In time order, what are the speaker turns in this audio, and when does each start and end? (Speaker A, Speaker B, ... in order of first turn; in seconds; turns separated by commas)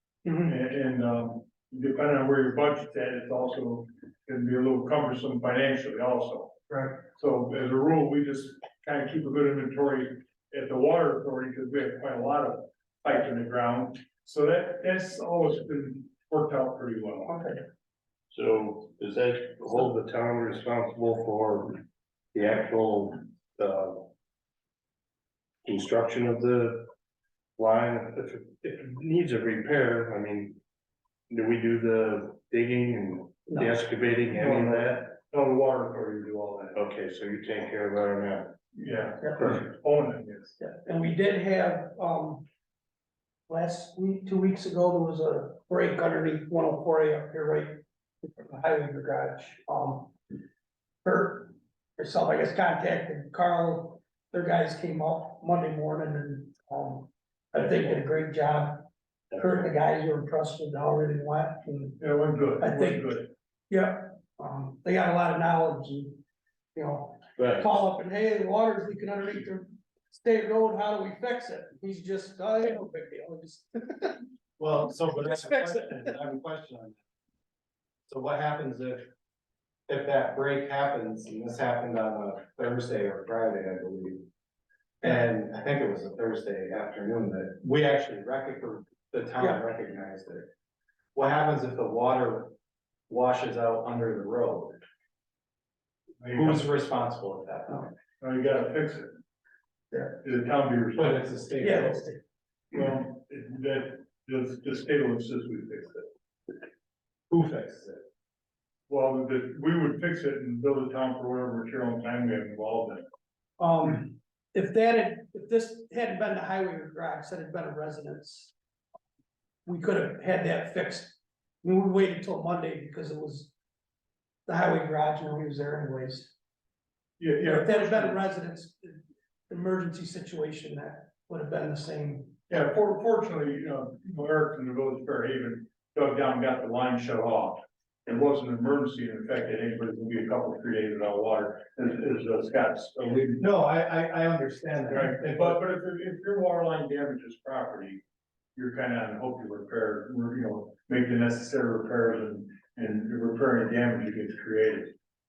Speaker A: 0.2-0.6, Speaker B: 0.4-6.5, Speaker A: 6.7-7.0, Speaker B: 7.1-17.3, Speaker A: 17.2-17.6, Speaker C: 18.3-21.8, Speaker C: 22.3-24.1, Speaker C: 25.6-26.9, Speaker C: 27.6-30.6, Speaker C: 31.3-35.1, Speaker A: 33.5-33.8, Speaker B: 33.9-36.8, Speaker C: 36.7-38.5, Speaker B: 38.7-40.5, Speaker A: 40.6-42.4, Speaker A: 43.5-50.2, Speaker A: 51.0-62.0, Speaker B: 62.0-63.3, Speaker A: 62.6-63.2, Speaker A: 63.7-66.2, Speaker A: 66.7-74.2, Speaker C: 67.4-67.7, Speaker D: 74.6-77.0, Speaker A: 75.2-76.1, Speaker D: 78.1-79.1, Speaker D: 79.9-84.2, Speaker D: 85.0-90.5, Speaker D: 91.1-92.5, Speaker D: 93.1-94.8, Speaker B: 96.2-96.6, Speaker D: 96.3-97.9, Speaker B: 98.2-99.2, Speaker B: 100.2-101.3, Speaker D: 101.0-102.1, Speaker A: 101.6-102.2, Speaker B: 102.7-106.0, Speaker D: 107.3-108.0, Speaker B: 108.9-113.0, Speaker A: 113.6-118.5, Speaker A: 119.7-123.5, Speaker A: 124.5-126.3, Speaker B: 127.2-128.2, Speaker A: 127.4-132.3, Speaker B: 132.5-143.4, Speaker D: 143.4-145.6, Speaker B: 144.9-148.0, Speaker B: 148.6-154.9